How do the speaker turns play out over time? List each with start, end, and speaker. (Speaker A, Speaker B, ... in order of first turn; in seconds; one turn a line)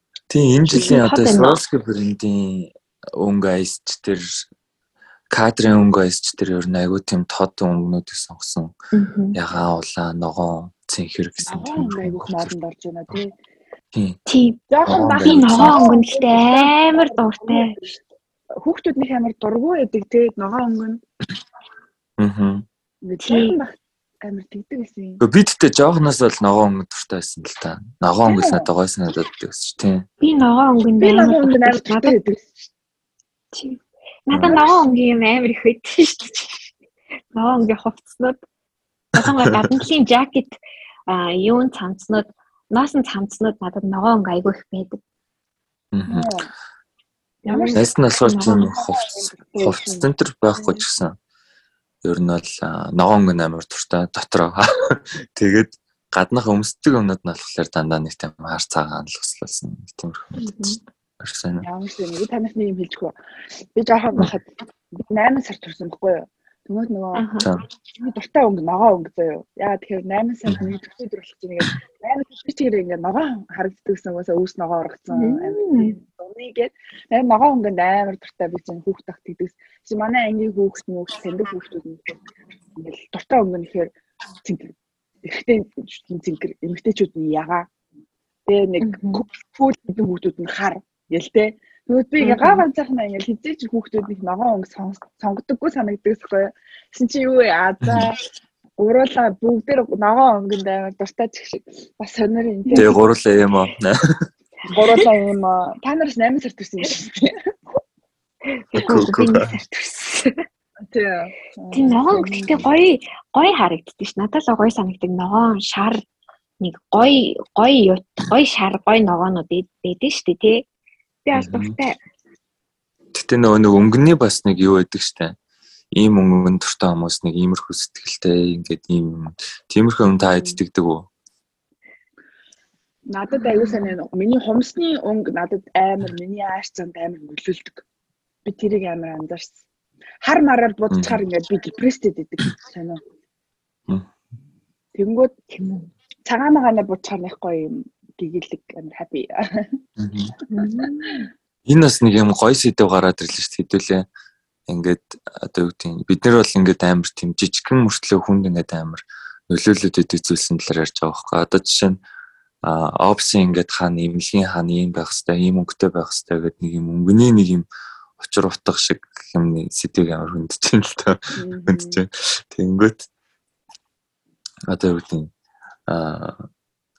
Speaker A: 0.3-4.5
Speaker B: 0.7-1.6
Speaker A: 5.3-8.7
Speaker B: 8.9-9.4
Speaker A: 9.3-12.5
Speaker C: 11.4-13.3
Speaker B: 14.2-14.7
Speaker C: 14.7-18.0
Speaker A: 14.8-15.8
Speaker B: 15.2-17.8
Speaker C: 18.5-21.0
Speaker A: 22.2-22.6
Speaker C: 23.0-25.2
Speaker B: 23.2-23.6
Speaker A: 25.2-30.1
Speaker C: 28.3-28.7
Speaker B: 30.2-32.1
Speaker C: 31.0-32.7
Speaker B: 33.5-36.7
Speaker A: 34.3-34.5
Speaker C: 34.4-34.8
Speaker B: 37.3-38.4
Speaker B: 39.1-45.0
Speaker A: 39.3-39.5
Speaker A: 45.9-46.3
Speaker C: 46.1-46.5
Speaker B: 47.5-48.6
Speaker C: 47.5-50.1
Speaker A: 47.7-51.1
Speaker A: 52.0-61.7
Speaker B: 60.4-60.8
Speaker C: 61.6-67.3
Speaker B: 67.1-67.5
Speaker C: 68.0-82.1
Speaker B: 75.1-76.0
Speaker C: 82.8-87.7
Speaker C: 88.5-98.2
Speaker B: 88.8-89.2
Speaker B: 92.2-92.6
Speaker A: 97.8-98.1
Speaker C: 98.8-102.9
Speaker B: 102.7-102.9
Speaker A: 102.8-104.3
Speaker B: 104.7-104.9
Speaker C: 104.7-107.5
Speaker B: 108.5-110.4
Speaker A: 108.7-109.5
Speaker C: 110.9-112.6
Speaker B: 111.7-116.0
Speaker B: 116.6-120.6
Speaker B: 121.2-122.0
Speaker A: 121.3-121.7
Speaker A: 123.1-125.3
Speaker A: 125.9-131.1
Speaker C: 130.3-130.6
Speaker C: 133.1-137.8
Speaker B: 133.3-133.9
Speaker C: 138.4-139.6
Speaker C: 140.2-143.0
Speaker A: 140.9-141.2
Speaker C: 144.9-145.3
Speaker B: 145.5-145.9
Speaker C: 146.2-149.8
Speaker A: 150.0-150.3
Speaker B: 150.5-151.2
Speaker C: 150.6-151.2
Speaker A: 151.7-154.1
Speaker A: 154.7-162.0
Speaker A: 162.6-167.7
Speaker A: 168.2-173.1
Speaker C: 171.4-172.0
Speaker A: 174.7-175.3
Speaker A: 175.9-176.4